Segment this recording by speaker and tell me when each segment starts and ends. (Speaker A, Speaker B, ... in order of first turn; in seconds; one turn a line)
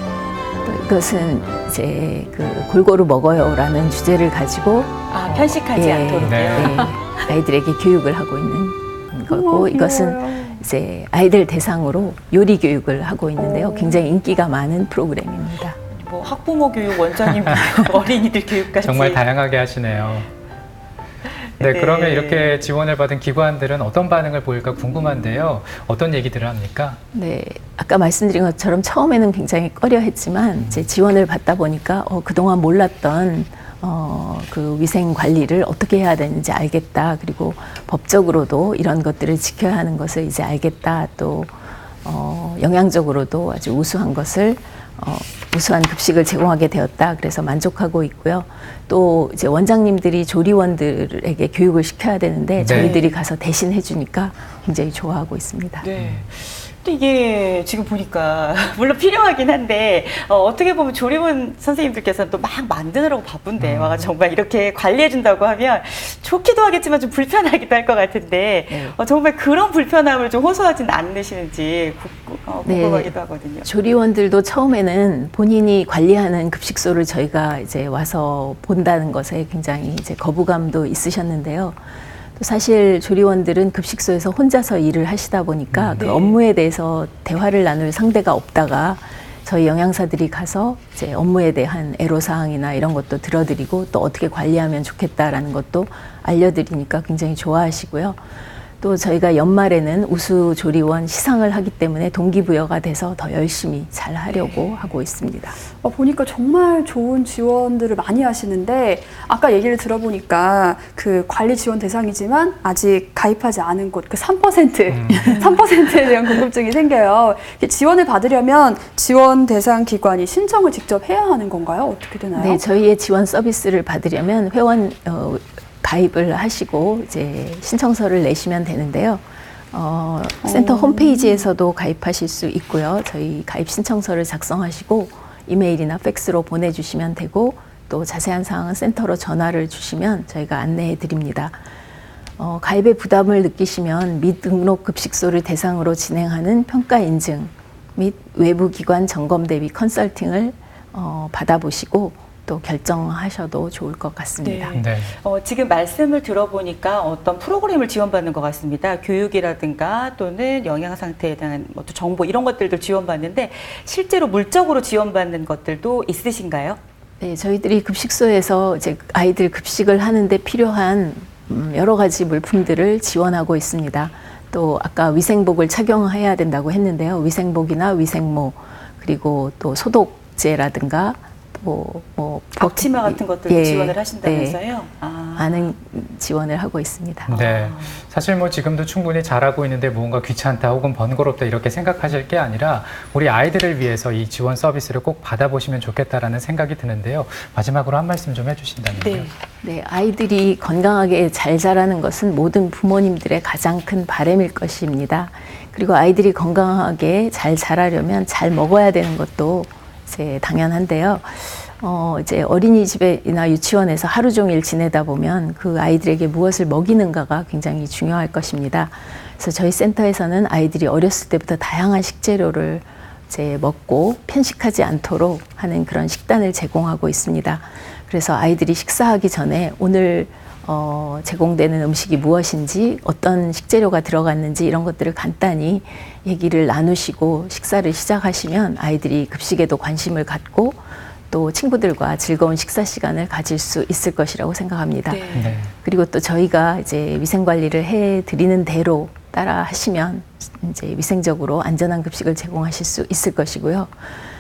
Speaker A: 0.6-15.8
Speaker B: 5.1-7.0
Speaker C: 6.2-6.9
Speaker D: 9.3-10.6
Speaker D: 13.6-13.9
Speaker B: 15.9-19.2
Speaker C: 18.8-20.3
Speaker B: 21.6-22.6
Speaker C: 21.6-27.0
Speaker A: 27.1-55.9
Speaker C: 30.6-30.9
Speaker C: 52.6-52.9
Speaker B: 52.7-53.2
Speaker B: 55.8-73.7
Speaker C: 56.0-56.2
Speaker C: 63.6-64.1
Speaker A: 68.7-69.0
Speaker A: 72.7-81.8
Speaker A: 82.4-98.2
Speaker C: 85.7-86.0
Speaker B: 86.0-86.4
Speaker A: 98.8-105.6
Speaker D: 105.8-122.6
Speaker C: 114.9-115.5
Speaker A: 122.3-141.6
Speaker D: 130.4-131.4
Speaker A: 142.4-154.8
Speaker B: 154.4-166.8
Speaker C: 154.7-155.1
Speaker A: 167.2-184.6
Speaker B: 182.6-185.7
Speaker A: 185.4-187.3
Speaker C: 187.3-199.3
Speaker B: 187.3-188.0
Speaker B: 199.0-199.3
Speaker A: 199.6-253.9
Speaker B: 245.1-245.6
Speaker C: 245.3-245.7